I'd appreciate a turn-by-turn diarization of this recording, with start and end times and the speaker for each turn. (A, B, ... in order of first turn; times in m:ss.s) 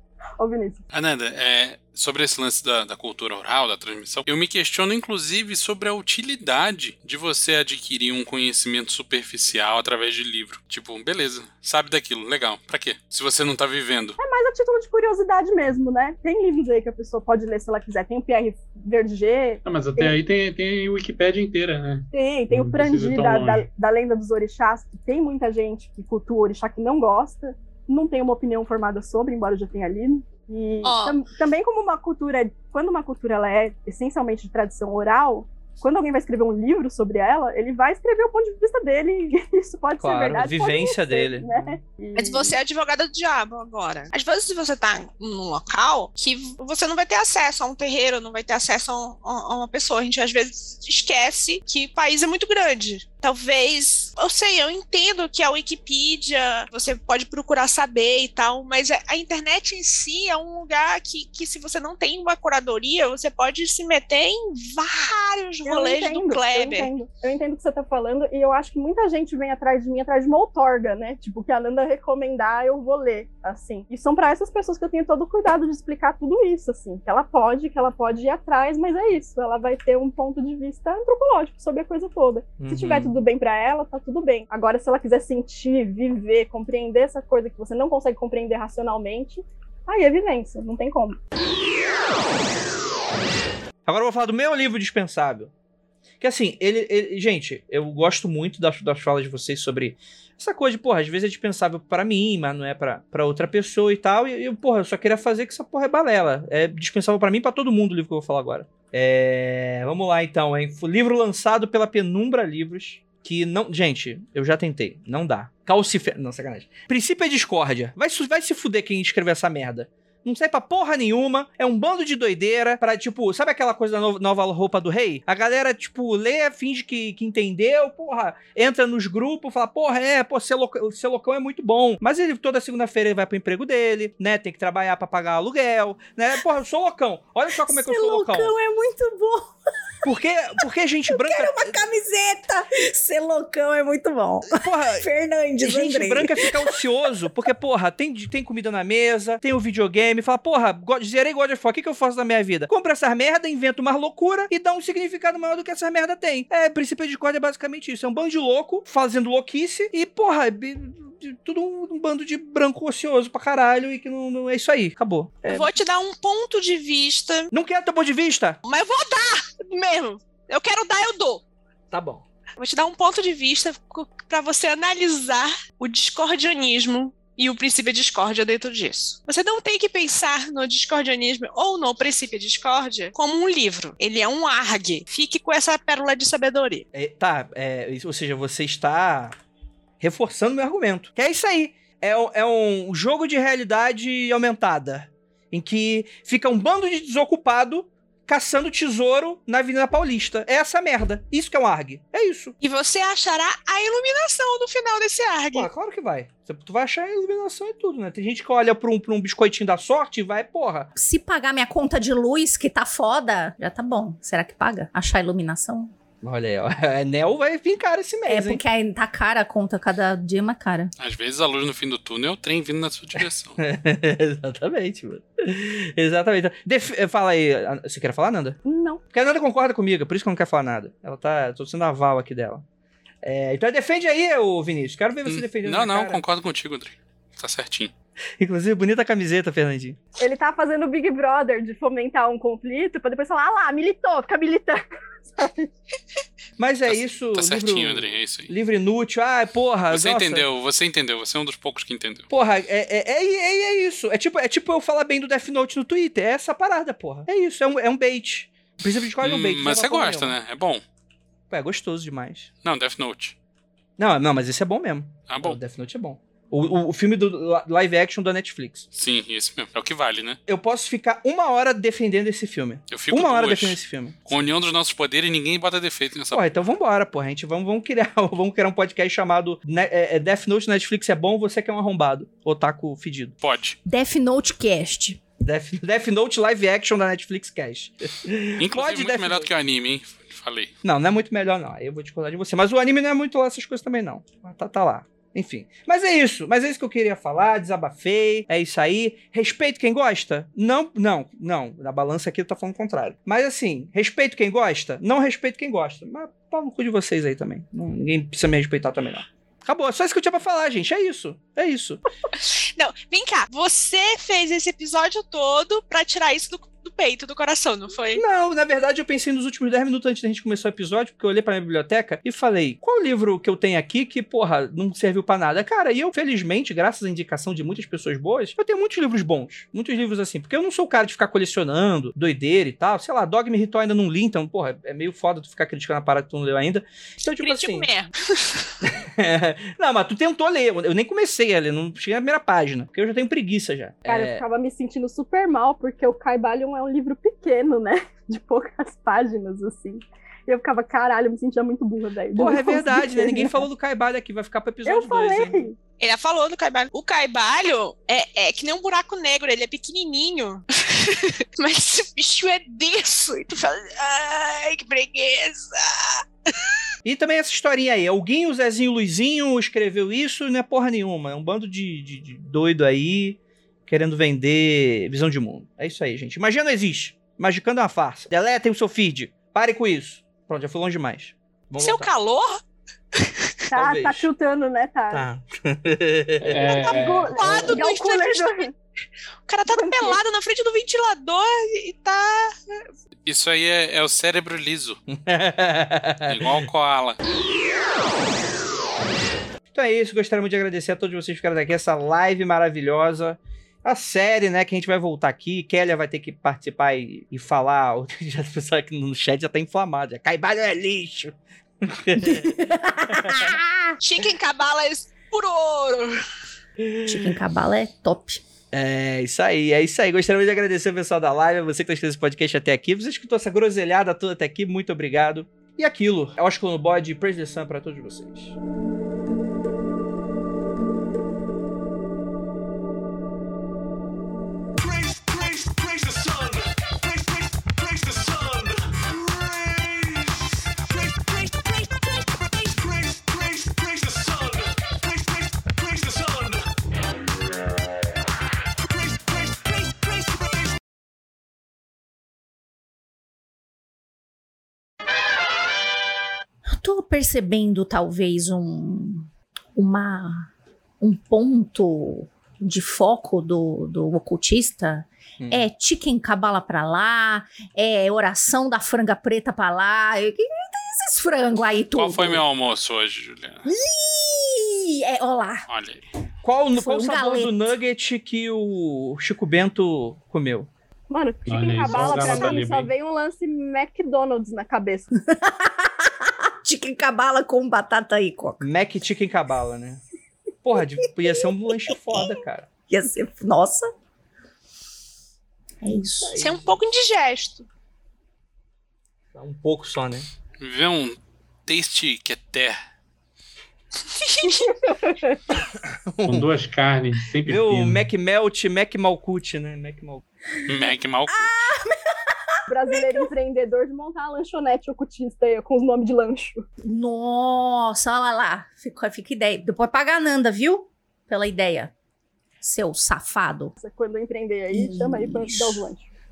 0:00.4-0:00.8 A
0:00.9-0:14.2 B
0:14.2-0:20.2 A
0:19.6-0:23.7 C
0:22.1-0:42.6 A
0:30.8-0:31.2 D
0:40.0-0:41.7 E
0:42.1-1:06.9 D
1:05.6-1:31.2 A
1:22.6-1:23.2 E
1:33.8-1:35.5 E
1:36.2-2:18.5 E
2:17.6-2:19.5 F
2:20.0-2:21.7 E
2:21.1-2:26.8 F
2:24.5-2:25.0 E
2:25.6-2:45.7 E
2:45.5-2:47.5 D
2:47.5-2:48.6 E
2:48.6-2:51.4 D
2:51.9-2:52.2 E
2:52.6-3:06.8 D
3:06.9-3:09.3 E
3:10.0-3:22.6 E
3:22.6-3:25.7 D
3:25.5-3:30.9 E
3:30.9-3:35.9 F
3:36.2-3:38.6 E
3:38.3-3:40.9 F
3:41.0-3:43.6 B
3:43.6-3:48.6 E
3:48.6-3:49.0 A
3:49.1-3:52.6 E
3:53.2-3:56.2 E
3:55.2-3:57.9 B
3:58.4-4:00.0 E
4:00.2-4:05.7 A
4:06.6-4:10.4 E
4:06.9-4:08.5 B
4:09.9-4:12.3 B
4:12.3-4:20.3 E
4:19.2-4:20.8 B
4:21.5-4:22.5 E
4:22.6-4:23.4 B
4:24.0-4:28.9 E
4:25.3-4:25.6 B
4:28.9-4:30.4 B
4:30.5-4:34.2 E
4:32.9-4:36.5 B
4:36.3-4:43.3 E
4:43.4-4:43.8 B
4:43.8-4:45.2 F
4:45.4-4:49.5 E
4:48.6-4:50.7 B
4:50.8-5:12.0 E
5:12.3-5:18.2 D
5:18.1-5:37.9 E
5:37.4-5:38.7 D
5:38.8-5:44.4 E
5:44.1-5:53.7 A
5:52.4-5:55.7 E
5:54.8-5:55.8 A
5:55.9-6:06.7 D
6:07.0-6:22.1 E
6:21.8-6:22.6 D
6:23.1-6:23.6 D
6:23.7-6:24.3 E
6:23.7-6:25.3 A
6:25.1-6:26.9 E
6:26.4-6:27.3 C
6:26.6-6:28.7 D
6:26.7-6:28.7 A
6:29.4-6:32.8 D
6:29.7-6:30.2 A
6:33.2-6:35.0 B
6:35.1-6:36.5 E
6:36.3-6:37.2 B
6:39.7-6:53.6 E
6:52.2-6:53.9 F
6:54.0-6:56.2 D
6:56.8-6:57.4 E
6:57.0-6:58.4 F
6:58.7-7:08.6 E
7:36.6-7:52.4 F
7:45.4-7:45.6 E
7:51.9-7:53.7 B
7:53.6-7:55.6 F
7:55.7-7:56.0 B
7:56.4-8:00.7 E
7:56.8-7:57.8 F
8:01.1-8:05.1 A
8:01.4-8:02.9 C
8:02.1-8:02.5 E
8:05.2-8:08.7 F
8:08.6-8:10.0 E
8:10.6-8:12.7 E
8:10.8-8:13.9 F
8:15.8-8:16.5 F
8:16.2-8:16.7 E
8:16.4-8:17.7 D
8:19.3-8:20.3 E
8:20.6-8:22.8 B
8:24.0-8:24.9 D
8:25.0-8:25.4 A
8:25.5-8:26.5 E
8:26.2-8:28.1 C
8:27.4-8:30.2 E
8:30.6-8:31.6 B
8:31.3-8:33.0 F
8:32.7-8:36.6 A
8:36.8-8:41.9 F
8:42.6-8:43.7 F
8:43.8-8:46.1 A
8:44.7-8:45.8 F